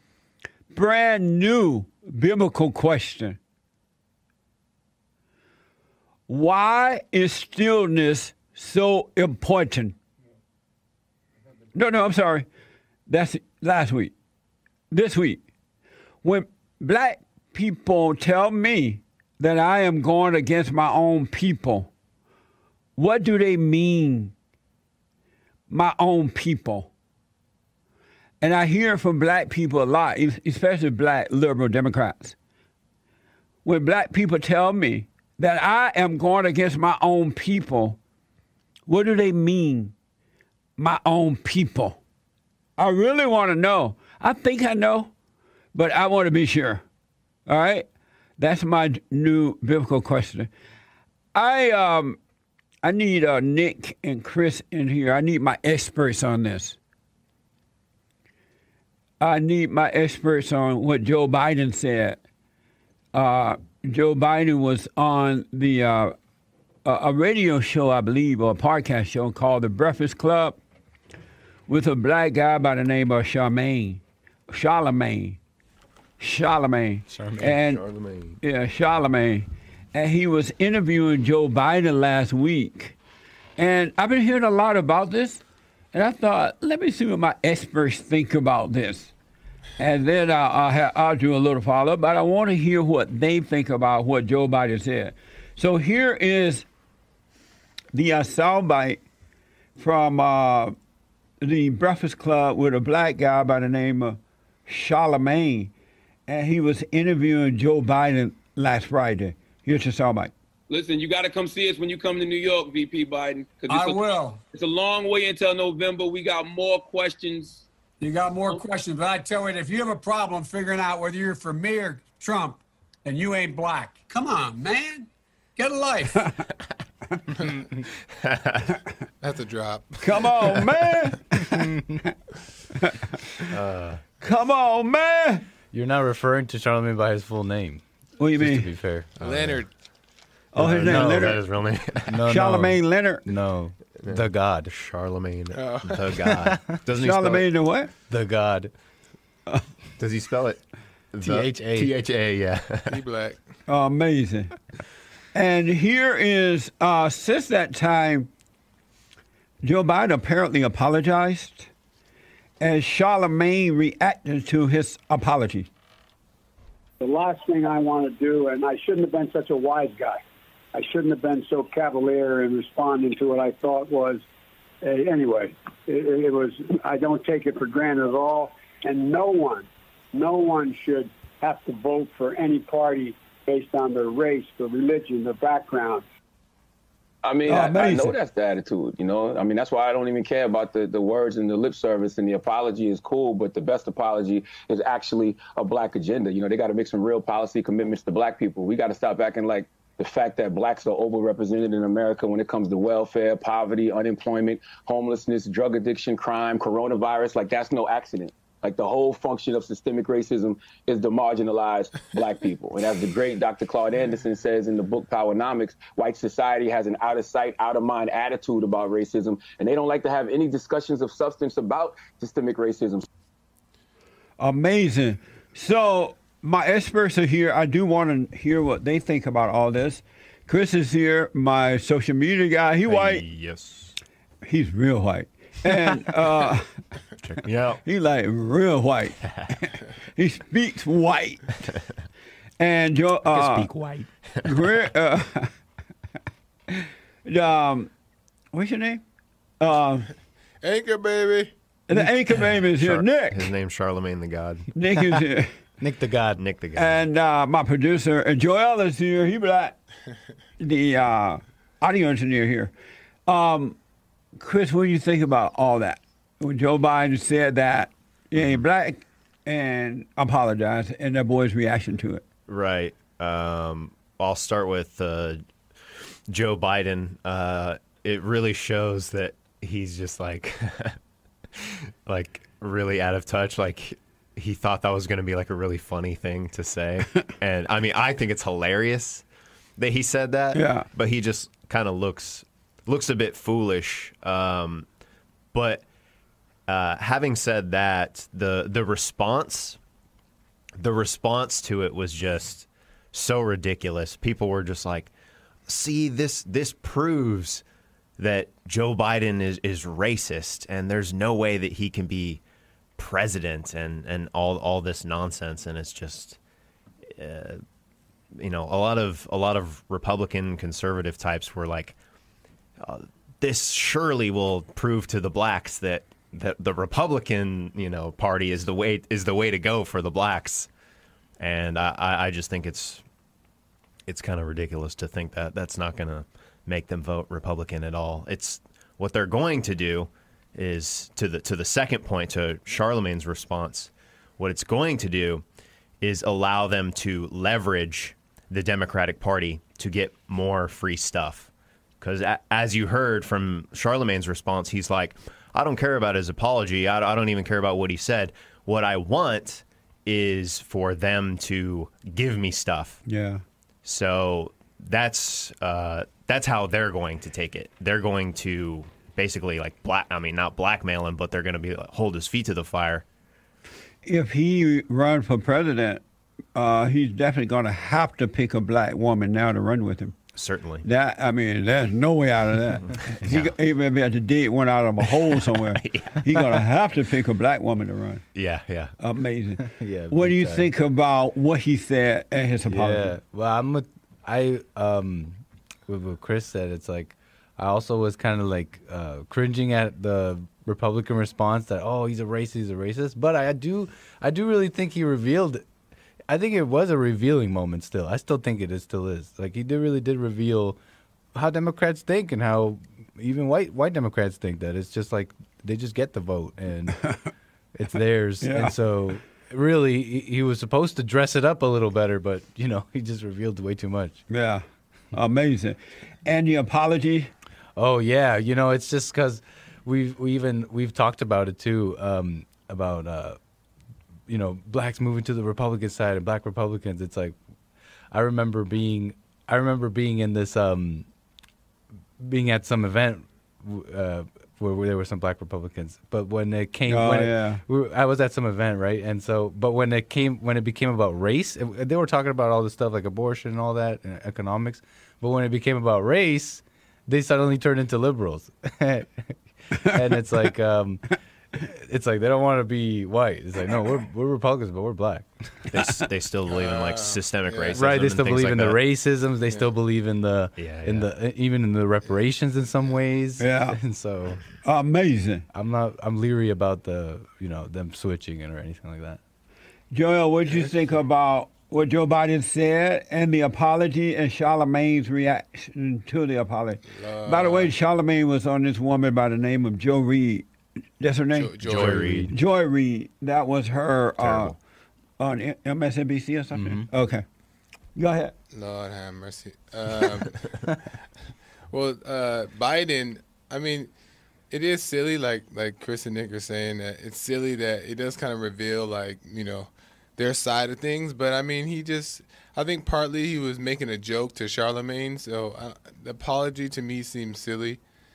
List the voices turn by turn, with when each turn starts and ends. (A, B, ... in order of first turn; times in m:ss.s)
0:00.7-0:03.4 A
0:06.3-0:10.0 A
0:11.7-0:12.5 A
0:13.1-0:14.1 A
0:14.9-0:15.4 A
0:16.2-0:21.9 A
0:23.0-0:24.3 A
0:25.7-0:26.9 A
0:28.4-0:32.4 A
0:33.6-0:38.0 A
0:38.9-0:39.9 A
0:40.8-0:42.0 A
0:42.8-0:45.1 A
0:45.7-0:46.8 A
0:47.5-0:47.8 A
0:48.4-0:50.5 A
0:51.3-0:52.2 A
0:52.8-0:56.8 A
0:59.2-1:02.2 A
1:03.1-1:06.1 A
1:06.8-1:10.6 A
1:11.7-1:14.0 A
1:14.5-1:15.4 A
1:16.2-1:17.8 A
1:17.1-1:17.5 B
1:17.5-1:18.4 C
1:18.4-1:23.0 A
1:23.6-1:25.4 A
1:25.9-1:29.1 A
1:29.8-1:36.7 A
1:37.9-1:39.0 A
1:39.8-1:40.8 A
1:41.4-1:45.7 A
1:46.3-1:50.3 A
1:50.7-1:57.6 D
1:53.7-1:54.4 E
1:58.0-2:06.4 E
2:08.2-2:08.8 C
2:09.2-2:10.0 F
2:10.0-2:11.7 A
2:11.7-2:12.0 B
2:12.8-2:13.5 A
2:13.5-2:14.0 C
2:14.2-2:15.4 A
2:15.7-2:17.8 B
2:18.2-2:18.7 A
2:18.4-2:19.1 B
2:19.2-2:19.7 F
2:19.2-2:19.6 C
2:20.5-2:21.4 A
2:20.6-2:21.4 B
2:20.6-2:22.2 C
2:22.1-2:24.7 B
2:22.3-2:23.2 A
2:24.0-2:27.4 C
2:25.5-2:26.0 F
2:26.2-2:26.7 B
2:27.0-2:27.9 A
2:28.1-2:28.7 B
2:30.0-2:30.6 C
2:31.1-2:33.0 C
2:31.2-2:31.9 B
2:32.9-2:33.4 F
2:33.7-2:34.5 A
2:35.3-2:38.3 A
2:39.6-2:41.7 A
2:42.6-2:45.7 A
2:47.0-2:50.2 G
2:50.7-2:54.2 G
2:54.8-3:06.0 G
3:07.2-3:43.1 D
3:07.5-3:08.2 A
3:44.4-3:53.2 A
3:52.9-3:53.9 C
3:54.4-3:56.7 A
3:57.2-3:57.8 C
3:57.8-4:01.5 A
4:02.6-4:03.7 A
4:03.3-4:04.1 B
4:04.4-4:05.5 A
4:06.7-4:07.9 A
4:08.5-4:09.0 A
4:09.6-4:10.1 A
4:10.6-4:11.5 F
4:11.9-4:13.5 A
4:12.8-4:14.7 C
4:14.7-4:15.5 A
4:15.8-4:16.4 B
4:16.4-4:17.0 C
4:16.8-4:19.8 A
4:20.6-4:22.7 A
4:23.3-4:23.8 A
4:24.4-4:32.2 A
4:32.5-4:35.4 C
4:36.3-4:41.0 C
4:41.6-4:49.2 C
4:49.8-4:54.8 C
4:50.5-4:50.9 A
4:55.5-4:55.8 C
4:56.7-4:59.8 C
5:00.8-5:05.1 C
5:05.7-5:07.6 C
5:08.2-5:12.4 C
5:13.0-5:16.4 C
5:17.2-5:17.6 C
5:18.4-5:21.9 C
5:22.8-5:30.7 C
5:31.4-5:33.0 C
5:34.1-5:45.4 C
5:46.0-5:51.5 C
5:52.0-6:03.0 C
6:03.1-6:03.4 A
6:03.8-6:13.0 C
6:14.0-6:16.0 A
6:16.5-6:20.1 A
6:20.3-6:20.8 C
6:20.8-6:28.2 A
6:23.1-6:23.5 C
6:25.8-6:26.3 C
6:28.3-6:28.9 C
6:29.0-6:33.2 A
6:29.6-6:30.7 B
6:32.7-6:45.6 B
6:46.3-6:50.8 B
6:51.3-6:57.2 B
6:57.7-7:04.2 B
6:58.4-6:58.7 A
7:04.3-7:07.3 A
7:07.8-7:13.4 B
7:14.3-7:17.4 B
7:18.1-7:21.1 B
7:22.2-7:45.6 B
7:26.9-7:27.6 A
7:45.7-7:48.8 C
7:46.5-7:47.8 F
7:47.7-7:54.4 B
7:50.6-7:51.1 C
7:53.4-7:53.8 A
7:54.6-7:55.4 A
7:55.5-7:59.2 B
7:59.9-8:10.4 A
8:06.9-8:07.7 F
8:11.0-8:14.5 A
8:11.3-8:12.2 F
8:11.6-8:12.3 C
8:11.9-8:12.3 B
8:14.2-8:14.6 C
8:15.2-8:17.2 A
8:16.5-8:16.9 B
8:18.0-8:18.3 A
8:18.5-8:20.5 F
8:21.7-8:23.9 F
8:24.5-8:37.8 F